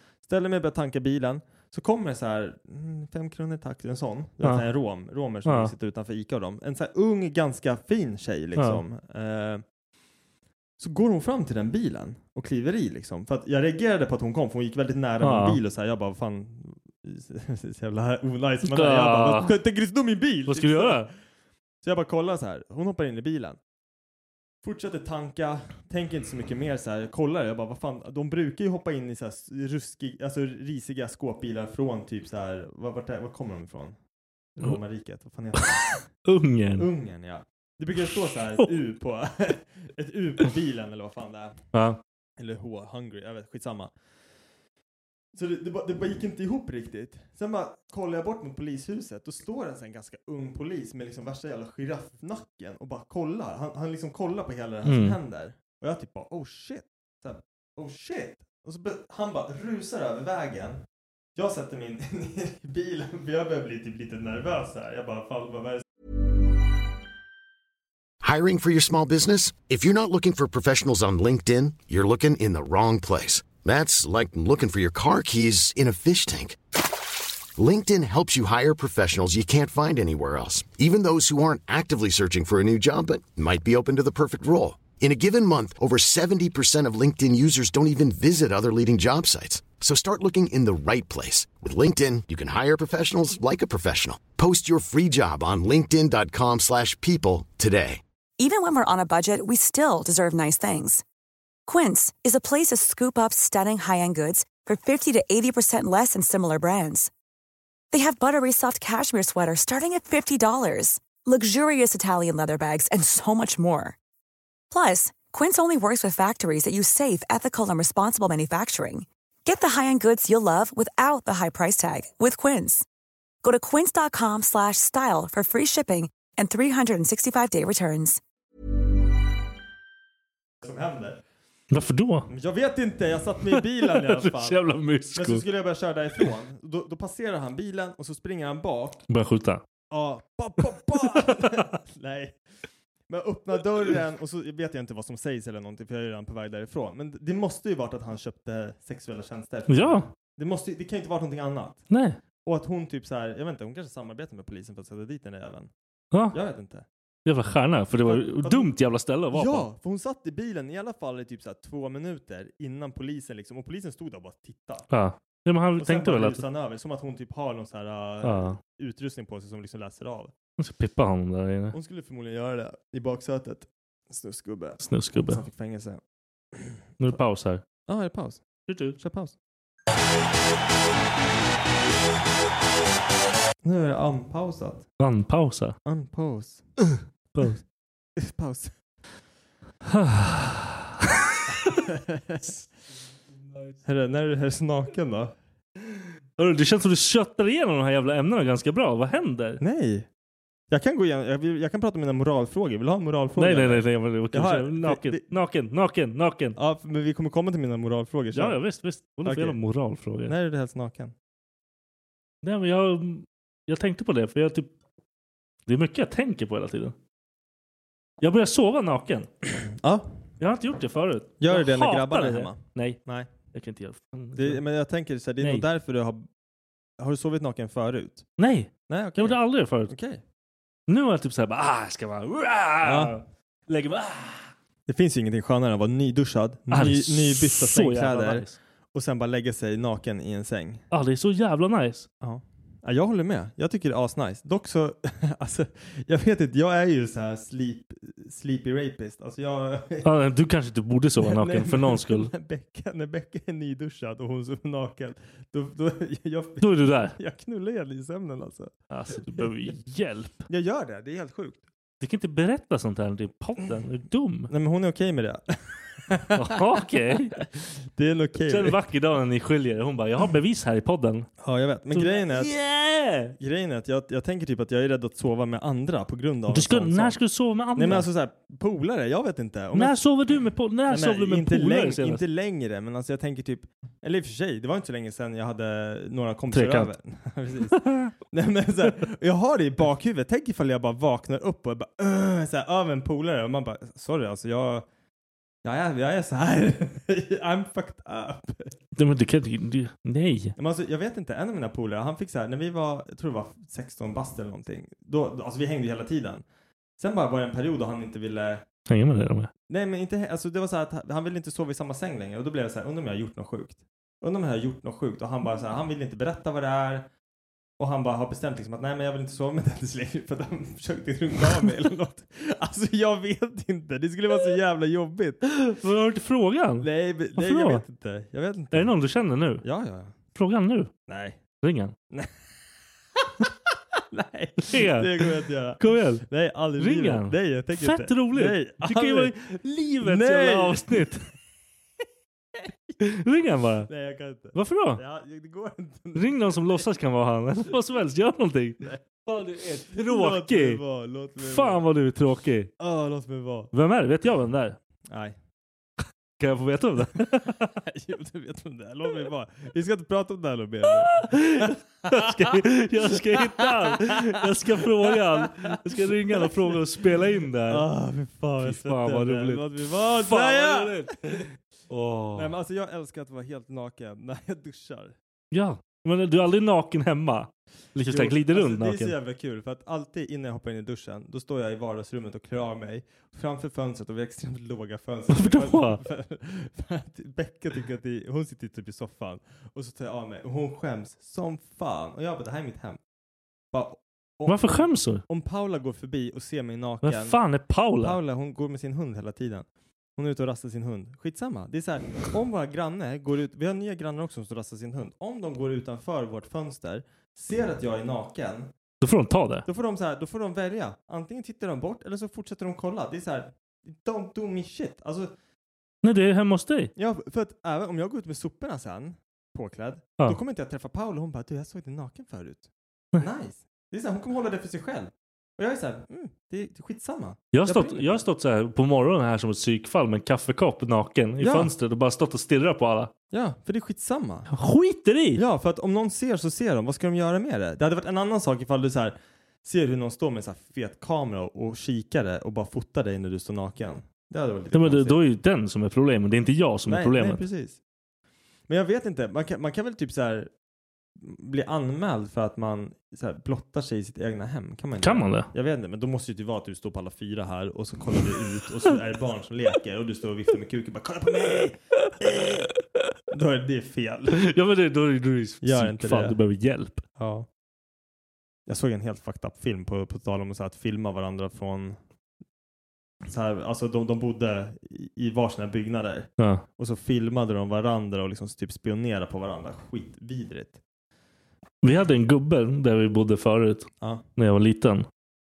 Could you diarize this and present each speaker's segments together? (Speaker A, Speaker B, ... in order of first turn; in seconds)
Speaker A: 0.2-9.6, 10.8-21.1, 21.8-23.6, 24.6-34.0, 34.6-35.9, 36.8-41.6, 42.4-43.9, 45.3-60.8, 61.4-65.8, 130.6-131.2, 132.3-134.6, 135.1-139.0, 139.9-142.4, 143.1-151.8, 152.4-155.7, 156.3-156.8, 158.0-158.7, 159.3-164.9, 165.8-170.3, 171.7-176.0, 176.5-177.2, 177.8-178.4, 178.9-179.3, 183.6-184.9, 185.8-186.7, 188.2-188.7, 191.8-192.4, 193.8-195.3, 199.6-200.1, 200.7-205.3, 206.6-208.6, 209.2-209.6, 210.2-211.1, 219.6-220.1, 221.4-223.3, 224.3-226.3, 227.0-228.3, 228.9-230.2, 232.8-233.2, 234.8-240.8, 242.2-250.1, 251.2-258.7, 259.3-259.7, 260.5-261.6, 264.5-268.8, 271.4-272.5, 273.4-277.2, 277.7-280.0, 280.9-294.9, 295.6-298.7, 300.6-306.4, 307.0-308.6, 309.7-317.1, 317.8-325.4, 326.8-328.9, 329.6-330.1, 331.1-331.4, 332.1-332.4, 333.1-339.4, 340.0-341.3, 343.9-346.5, 349.9-351.8, 352.8-353.7, 355.1-355.4, 357.8-366.8, 367.7-371.5, 372.3-375.1, 378.1-393.0, 393.7-397.4, 398.0-408.7, 409.6-415.3, 416.9-428.2, 431.4-431.7, 433.3-434.5, 435.3-445.2, 446.9-447.8, 448.7-450.5, 451.2-462.7, 463.3-464.5, 465.6-466.4, 467.2-467.5, 468.7-472.0, 473.2-480.8
Speaker B: 5.4-5.7, 8.6-8.8, 15.2-15.6, 18.6-19.5, 20.5-21.1, 36.2-36.9, 41.7-42.0, 54.8-55.2, 131.7-132.3, 133.5-135.4, 139.1-139.6, 141.1-141.7, 149.7-150.1, 151.9-152.2, 156.1-156.4, 157.2-159.7, 164.9-166.4, 168.2-168.6, 170.6-171.8, 174.8-175.4, 177.0-177.6, 178.7-179.0, 185.0-185.8, 187.3-187.6, 189.8-191.8, 196.4-199.6, 203.4-206.6, 208.3-210.3, 212.4-214.7, 215.7-216.9, 218.2-219.3, 220.4-223.0, 223.5-224.6, 225.4-225.7, 228.4-229.9, 230.9-234.5, 236.7-238.6, 240.9-242.1, 250.0-252.3, 256.6-257.2, 258.9-260.5, 262.0-264.5, 266.3-267.4, 268.4-271.3, 271.9-273.3, 276.5-278.1, 279.7-282.2, 286.5-286.9, 287.7-288.1, 298.9-300.5, 308.9-309.5, 325.6-327.8, 328.7-329.6, 330.3-330.9, 331.6-331.9, 334.6-336.2, 336.8-341.3, 343.0-343.9, 344.5-345.0, 346.1-350.8, 351.4-352.7, 353.7-354.8, 356.4-357.8, 360.8-367.9, 368.6-372.5, 375.5-379.1, 385.3-386.0, 394.4-395.2, 397.0-398.2, 409.0-409.7, 416.0-416.9, 427.5-433.1, 434.5-435.4, 444.7-447.4, 455.0-455.5, 464.3-467.0, 476.4-476.6, 481.8-485.1
Speaker C: 68.2-76.6, 77.5-98.0
Speaker D: 98.4-101.0, 101.7-107.1, 107.9-114.0, 114.7-122.8, 123.4-128.2